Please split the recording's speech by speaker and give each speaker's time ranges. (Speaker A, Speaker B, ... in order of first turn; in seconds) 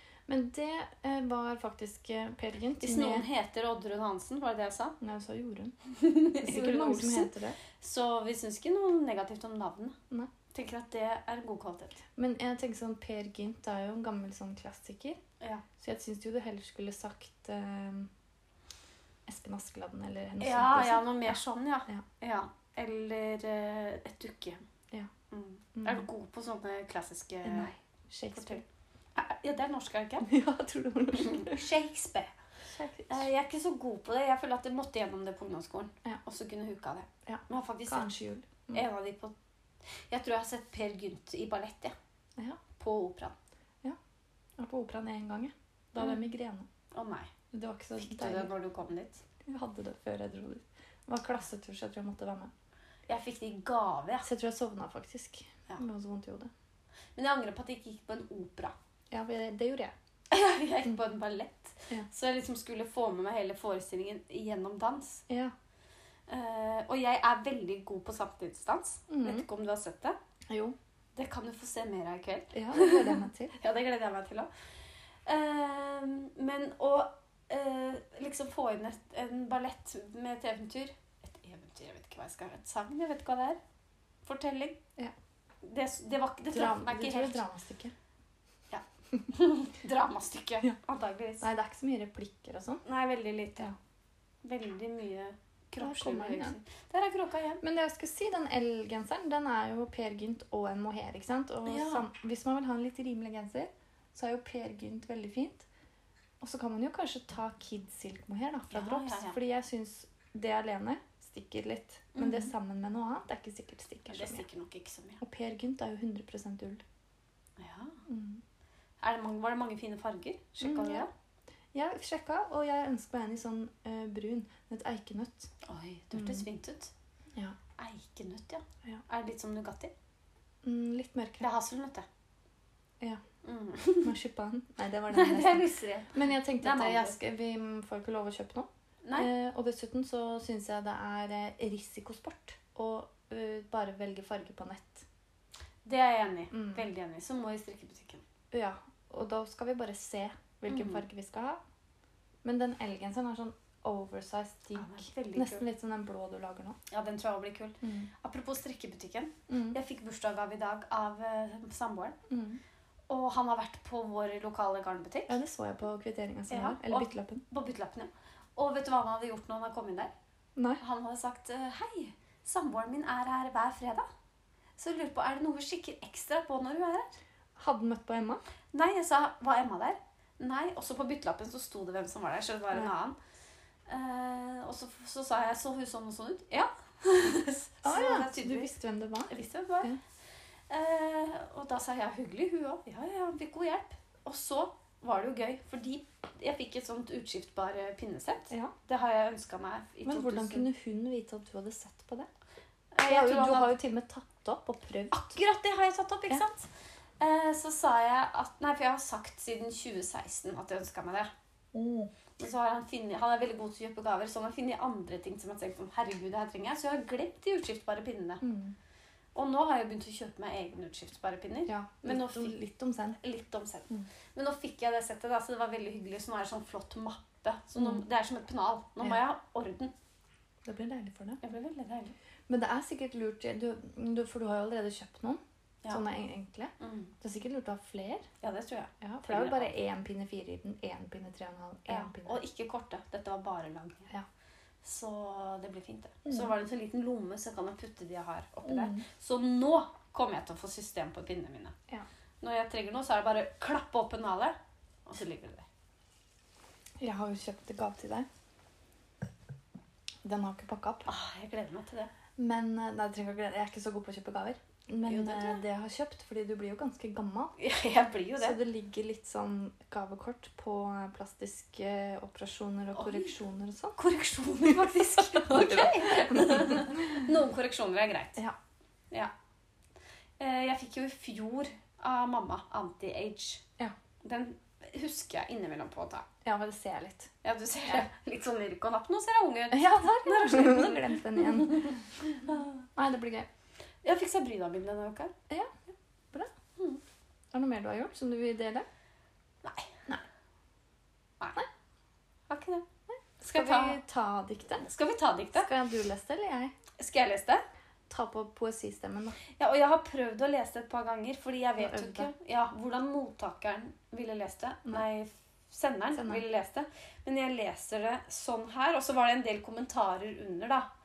Speaker A: 0.3-3.2, 5.0-5.7, 6.4-7.6, 12.2-15.2, 15.8-18.1, 19.3-22.0, 25.8-26.1, 27.4-28.6, 30.2-31.6, 32.7-33.2, 37.2-38.8, 44.6-46.7, 47.5-48.5, 49.4-52.5, 54.2-56.5, 59.1-59.9, 69.1-69.5, 70.5-70.8, 72.5-73.5, 86.5-87.9, 91.4-92.8, 95.8-96.5, 97.6-105.7, 106.4-114.4, 115.2-116.8, 118.1-118.4, 120.6-121.1, 121.7-125.5, 126.1-126.5, 130.6-131.5, 134.0-145.1, 146.5-146.8, 148.5-151.6, 152.4-156.8, 157.8-158.1, 159.5-159.8, 162.3-162.6, 165.3-167.4, 177.6-178.4, 187.8-190.0, 200.0-202.3, 203.0-205.4, 211.7-212.1, 218.4-218.8, 221.7-223.2, 230.6-231.4, 232.5-238.3, 239.0-242.4, 248.7-249.0, 257.0-258.3, 260.2-261.1, 262.4-267.5, 268.4-274.0, 274.6-277.3, 286.4-287.3, 289.7-292.0, 292.9-293.5, 297.5-298.9, 303.1-304.9, 305.5-306.7, 308.1-309.4, 311.8-312.3, 316.1-316.4
Speaker B: 2.8-5.0, 5.8-9.9, 10.5-12.0, 20.4-24.6, 25.3-27.7, 28.3-30.3, 31.1-32.3, 33.1-38.1, 38.7-39.3, 40.1-41.9, 42.8-43.3, 46.9-47.3, 48.0-49.2, 53.1-54.3, 57.1-58.7, 60.3-65.2, 66.3-70.2, 71.2-74.5, 75.2-83.6, 84.2-84.8, 85.6-87.4, 88.7-91.5, 92.8-93.7, 94.4-97.6, 101.6-102.0, 108.7-109.4, 112.1-112.5, 114.1-115.2, 117.6-118.0, 119.0-121.1, 125.6-126.9, 127.8-129.9, 131.4-132.0, 133.4-134.1, 135.1-137.2, 139.0-139.3, 145.8-148.2, 150.7-151.0, 154.7-155.7, 156.9-162.2, 163.1-165.4, 166.5-170.1, 170.8-174.1, 174.8-177.1, 178.7-183.2, 183.9-188.7, 189.3-189.9, 190.7-200.7, 202.9-203.8, 205.1-211.3, 212.4-218.4, 219.3-222.5, 223.2-229.9, 231.4-232.1, 236.8-237.1, 238.4-239.7, 241.9-244.1, 244.8-251.7, 252.4-255.7, 261.1-262.1, 265.1-265.6, 267.6-268.6, 272.9-273.3, 273.9-278.4, 280.4-283.6, 284.2-286.2, 287.4-292.8, 294.0-295.3, 299.6-300.0, 301.4-301.6, 302.5-302.8, 303.4-304.0, 304.8-305.7, 307.0-307.6, 309.6-320.9